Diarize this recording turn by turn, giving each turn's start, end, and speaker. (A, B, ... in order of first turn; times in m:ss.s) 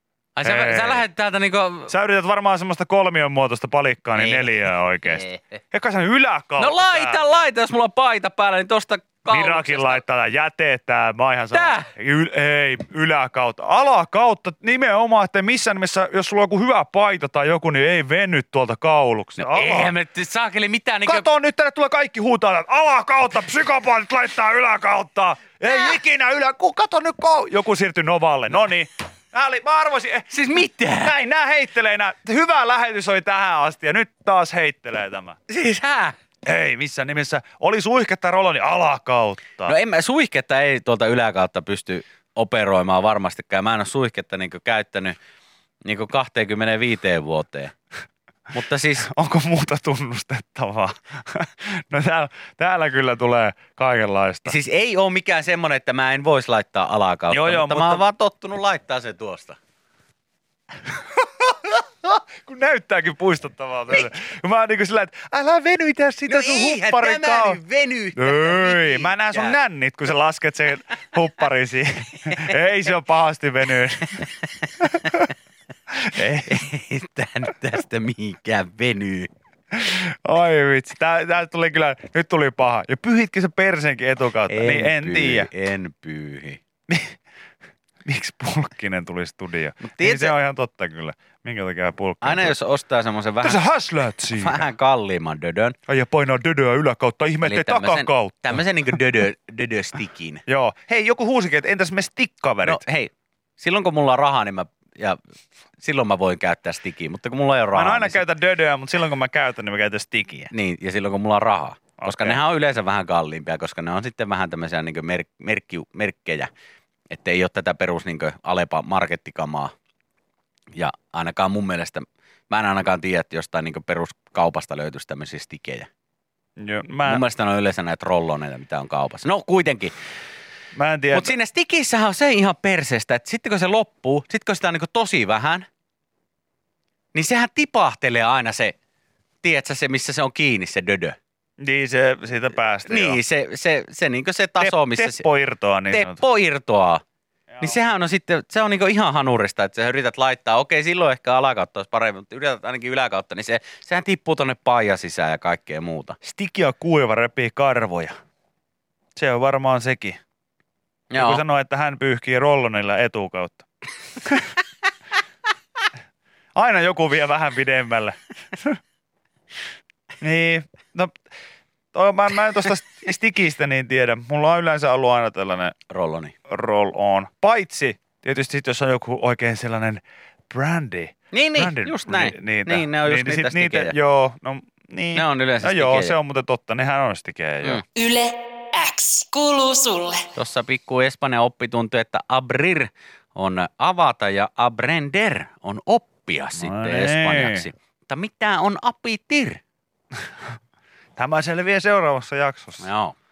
0:00.4-0:01.9 A
0:00.4-0:01.0 B
0:01.9-0:07.4 B
0:04.2-0:04.5 A
0:05.0-0:05.5 A
0:06.6-0:10.0 A
0:09.3-0:19.9 B
0:11.5-0:11.9 A
0:19.4-0:21.3 A
0:21.0-0:30.3 B
0:30.3-0:31.1 A
0:31.0-0:35.4 B
0:35.5-0:36.2 A
0:36.4-0:39.7 B
0:39.6-0:45.2 A
0:45.8-0:47.7 A
0:48.5-0:49.1 A
0:49.1-0:54.5 B
0:54.4-0:59.6 A
0:57.3-0:58.0 B
1:01.2-1:07.6 B
1:06.3-1:09.5 A
1:08.2-1:14.3 B
1:14.8-1:15.3 B
1:15.9-1:16.6 B
1:16.4-1:19.3 A
1:19.7-1:25.5 B
1:24.5-1:26.6 A
1:26.9-1:27.2 B
1:28.0-1:32.5 B
1:29.8-1:30.3 A
1:32.2-1:33.6 A
1:33.4-1:34.7 B
1:34.3-1:35.8 A
1:35.9-1:38.6 B
1:37.4-1:40.4 A
1:40.5-1:42.8 B
1:42.6-1:45.2 A
1:45.8-1:48.2 A
1:47.7-1:50.5 B
1:50.5-1:56.5 A
1:52.0-1:52.4 B
1:57.1-1:59.7 A
2:00.7-2:05.9 A
2:06.6-2:07.2 B
2:07.0-2:09.9 A
2:10.7-2:11.3 B
2:11.1-2:15.7 A
2:17.1-2:18.7 A
2:19.4-2:21.2 A
2:21.6-2:23.2 B
2:22.8-2:25.2 A
2:24.6-2:26.2 B
2:25.9-2:27.0 A
2:27.5-2:27.8 B
2:27.6-2:36.2 A
2:36.2-2:38.2 B
2:39.2-2:40.2 B
2:41.1-2:41.4 A
2:41.1-2:43.7 B
2:46.5-2:48.8 B
2:50.2-2:51.1 B
2:51.9-2:55.7 B
2:55.9-2:56.3 A
2:56.5-3:07.8 B
3:01.3-3:03.9 A
3:05.1-3:06.1 A
3:07.9-3:10.2 C
3:10.3-3:19.6 A
3:16.6-3:17.7 B
3:21.2-3:22.8 B
3:22.8-3:23.2 A